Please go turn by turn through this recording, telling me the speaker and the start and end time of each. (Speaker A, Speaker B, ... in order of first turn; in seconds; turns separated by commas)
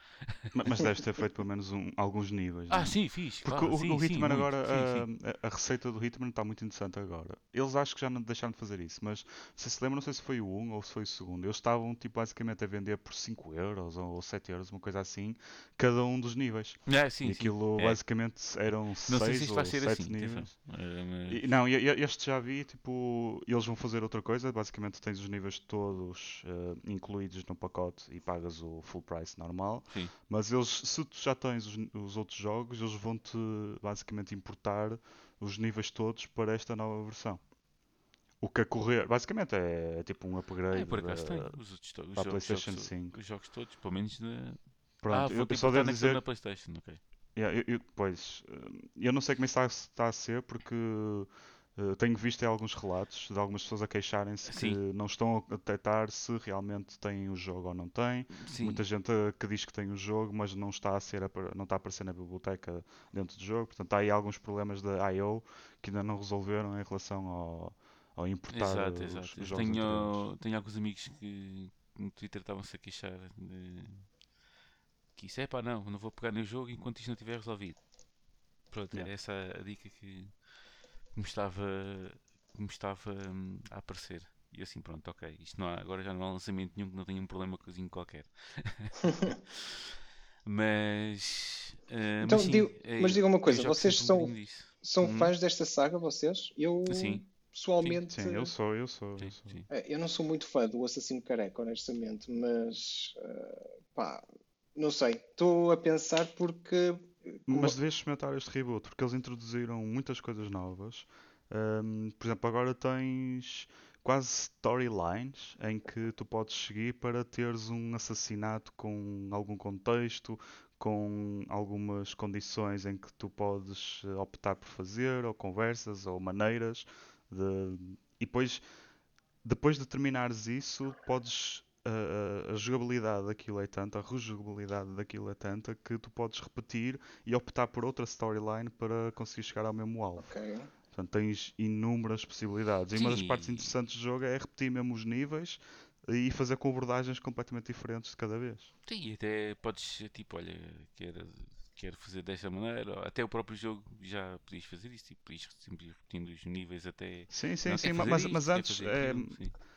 Speaker A: 0.2-0.5, Speaker B: 0.5-20.5, Speaker A: 2.7-5.1, Speaker A: 16.9-18.0, Speaker A: 19.1-21.4, Speaker B: 21.3-37.4, Speaker B: 38.4-41.6, Speaker A: 40.7-44.6, Speaker B: 42.2-43.2, Speaker B: 45.0-46.2, Speaker A: 45.1-47.0, Speaker B: 47.4-70.3, Speaker A: 54.5-54.8, Speaker A: 58.4-58.8, Speaker A: 68.5-74.1, Speaker A: 75.2-77.8, Speaker A: 78.7-80.3, Speaker A: 81.1-95.3, Speaker C: 92.2-98.5, Speaker A: 96.9-97.2, Speaker B: 98.1-99.5, Speaker A: 99.2-99.7, Speaker C: 99.7-107.8, Speaker B: 107.5-128.6, Speaker B: 129.4-140.3, Speaker C: 140.2-140.7, Speaker B: 140.9-148.7, Speaker A: 142.9-143.7, Speaker A: 148.9-159.6, Speaker B: 157.3-159.4